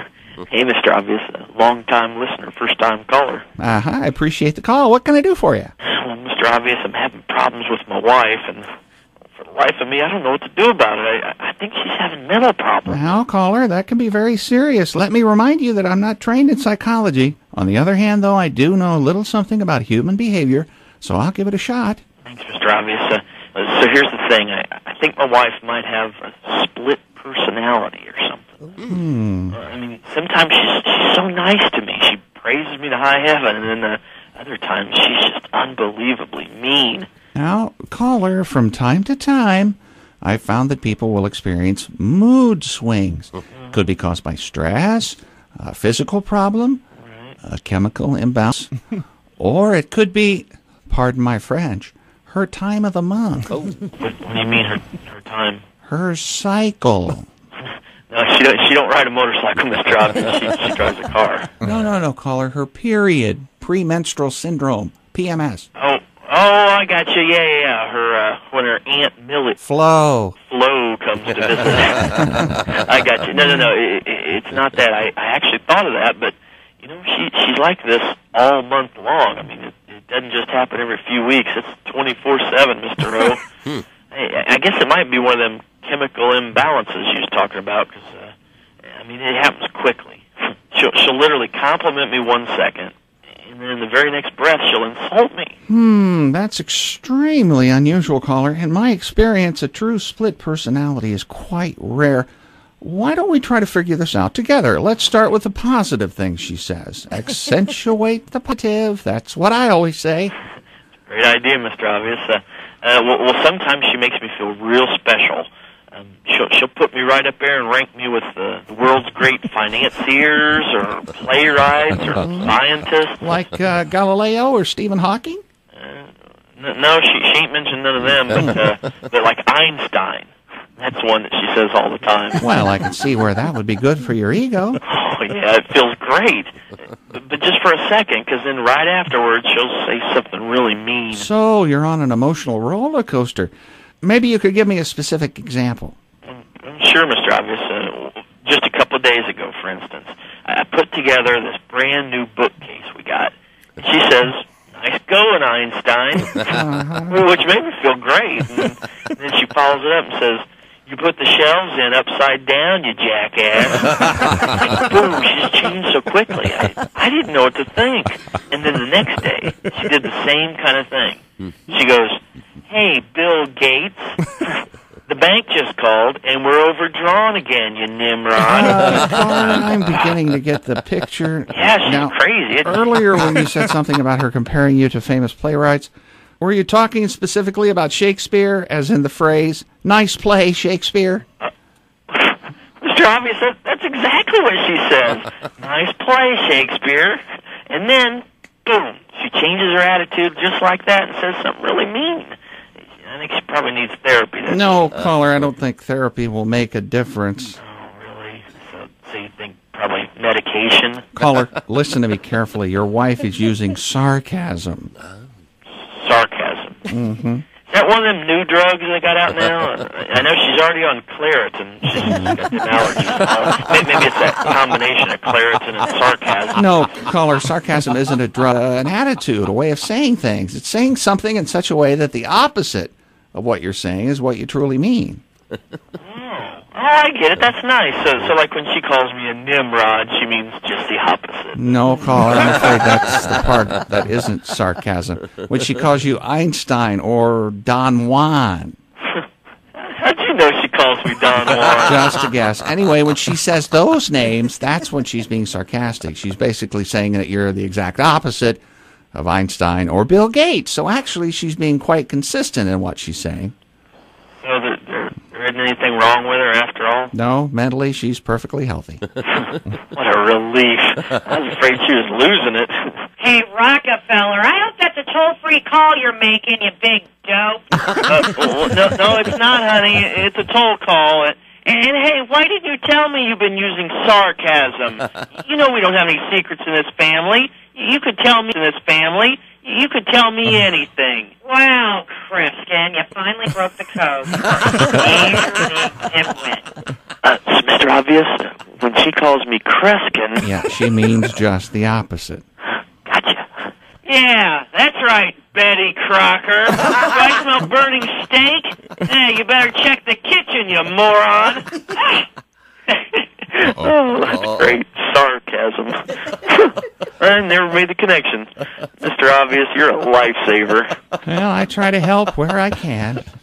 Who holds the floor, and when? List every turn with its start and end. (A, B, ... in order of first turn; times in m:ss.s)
0:00.4-0:03.5 A
0:03.6-0:05.7 B
0:05.8-0:08.7 A
0:09.3-0:13.2 A
0:12.8-0:22.0 B
0:22.2-0:28.7 A
0:28.8-0:29.6 B
0:29.5-0:37.1 A
0:37.3-0:46.8 B
0:47.0-0:47.4 A
0:47.4-0:48.7 B
0:49.4-0:53.6 B
0:54.0-0:55.6 A
0:55.8-0:57.3 B
0:58.1-1:01.6 A
1:01.6-1:05.7 B
1:05.8-1:09.6 A
1:09.6-1:10.3 B
1:10.4-1:23.5 A
1:12.1-1:12.5 B
1:13.3-1:13.7 B
1:24.1-1:28.3 A
1:28.8-1:35.6 A
1:35.7-1:42.3 B
1:42.8-1:50.3 B
1:51.1-2:03.2 A
2:02.2-2:02.5 B
2:03.2-2:05.4 B
2:05.7-2:12.4 A
2:12.4-2:14.8 B
2:14.8-2:16.6 A
2:17.1-2:21.3 A
2:21.1-2:26.0 B
2:26.3-2:36.6 A
2:36.3-2:37.2 B
2:37.1-2:54.3 A
2:55.1-2:59.6 A
2:58.4-3:11.2 B
3:01.5-3:02.9 A
3:12.1-3:22.3 A
3:22.9-3:24.9 A
3:24.4-3:27.6 B
3:27.6-3:31.1 A
3:31.2-3:34.9 B
3:35.8-3:36.9 A
3:36.9-3:37.4 B
3:37.6-3:46.7 A
3:46.5-3:55.2 B
3:56.0-4:02.7 A
4:01.6-4:08.8 B
4:09.8-4:12.2 A
4:11.8-4:18.6 B
4:19.1-4:23.5 B
4:24.4-4:27.1 A
4:27.1-4:29.0 B
4:29.4-4:33.0 A
4:33.2-4:37.9 C
4:38.0-4:51.3 A
4:51.4-4:56.7 C
4:57.2-5:00.5 A
5:00.4-5:02.4 B
5:03.0-5:03.7 A
5:04.0-5:05.4 C
5:05.3-5:12.2 A
5:12.9-5:21.0 A
5:21.2-5:23.3 B